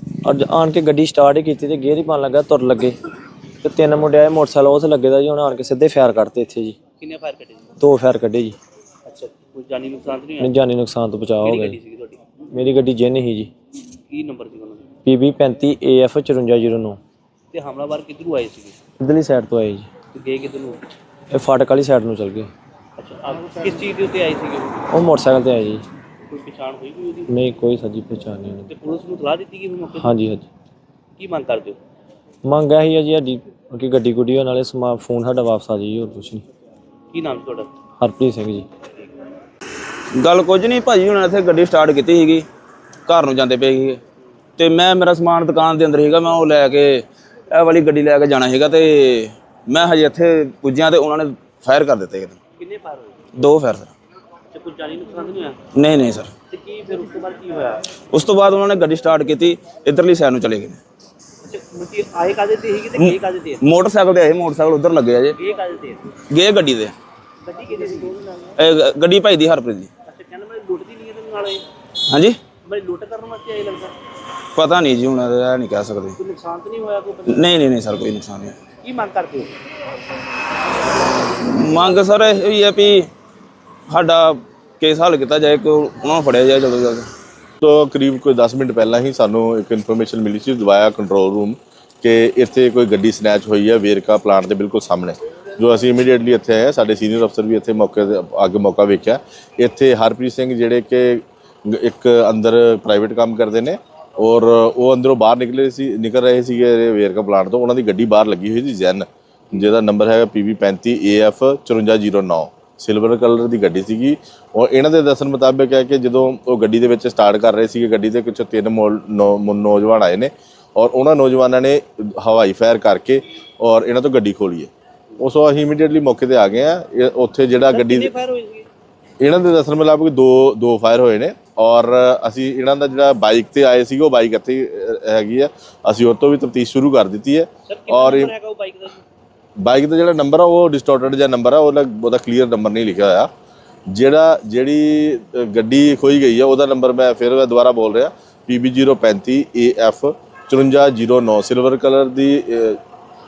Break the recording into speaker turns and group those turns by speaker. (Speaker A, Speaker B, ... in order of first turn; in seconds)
Speaker A: 0.2-3.0, 3.6-6.8, 7.8-8.6, 10.4-11.8, 12.5-13.5, 15.0-17.0, 19.0-19.9, 21.3-22.5, 24.9-25.8, 27.3-28.7, 29.9-30.5, 32.4-36.4, 38.0-38.6
Speaker B: 7.0-7.7, 9.1-10.5, 11.4-12.4, 13.9-14.9, 17.5-18.8, 20.1-20.8, 23.0-24.9, 26.2-27.3, 28.7-30.2, 31.2-31.8, 37.1-37.7, 52.6-53.2, 54.5-55.6, 56.4-57.9, 61.4-63.6, 65.4-66.2, 67.4-68.5, 70.0-71.7, 72.5-74.0, 76.2-77.5, 78.8-79.5, 127.7-128.7, 137.7-139.0
Speaker C: 40.1-42.5, 43.0-44.0, 44.6-52.4, 53.4-53.9, 55.7-56.3, 58.1-60.8, 63.0-65.4, 66.2-66.9, 68.6-69.9, 72.1-72.5, 74.5-76.2, 77.3-78.6, 81.3-83.1, 83.9-87.1
Speaker D: 87.6-128.1, 129.2-138.3, 139.6-143.3, 143.9-152.8